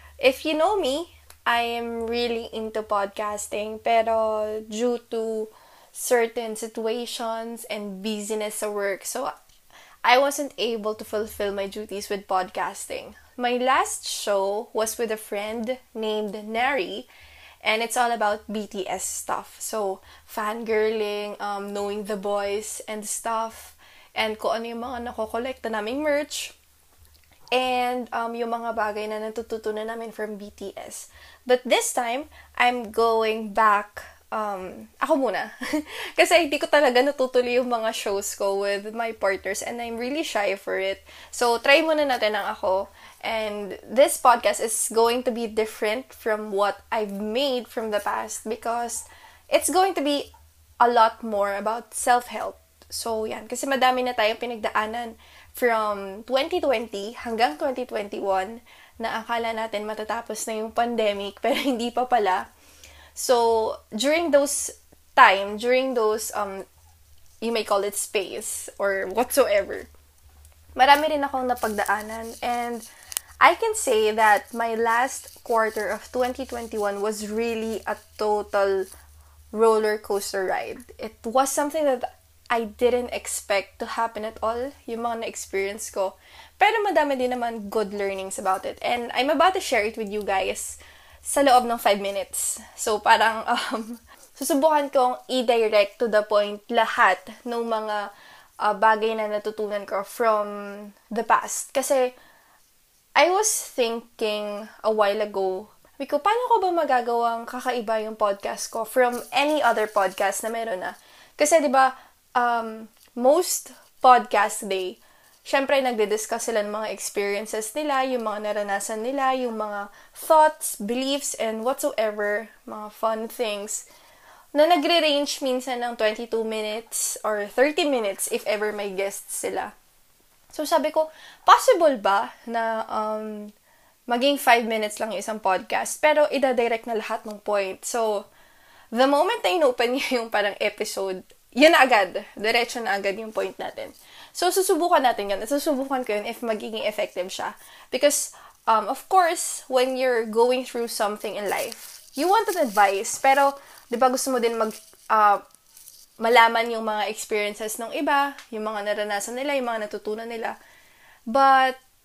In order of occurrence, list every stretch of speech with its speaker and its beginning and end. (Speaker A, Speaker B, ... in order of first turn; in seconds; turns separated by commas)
Speaker A: 0.2-9.3, Speaker A: 10.0-17.1, Speaker A: 17.6-26.6, Speaker A: 27.5-62.5, Speaker A: 63.1-66.7, Speaker A: 67.4-69.9, Speaker A: 70.8-72.9, Speaker A: 73.4-78.9, Speaker A: 79.5-98.1, Speaker A: 98.6-102.2, Speaker A: 103.2-123.8, Speaker A: 124.5-129.7, Speaker A: 130.5-133.5, Speaker A: 134.1-138.3, Speaker A: 138.9-155.4, Speaker A: 156.2-160.6, Speaker A: 161.3-161.8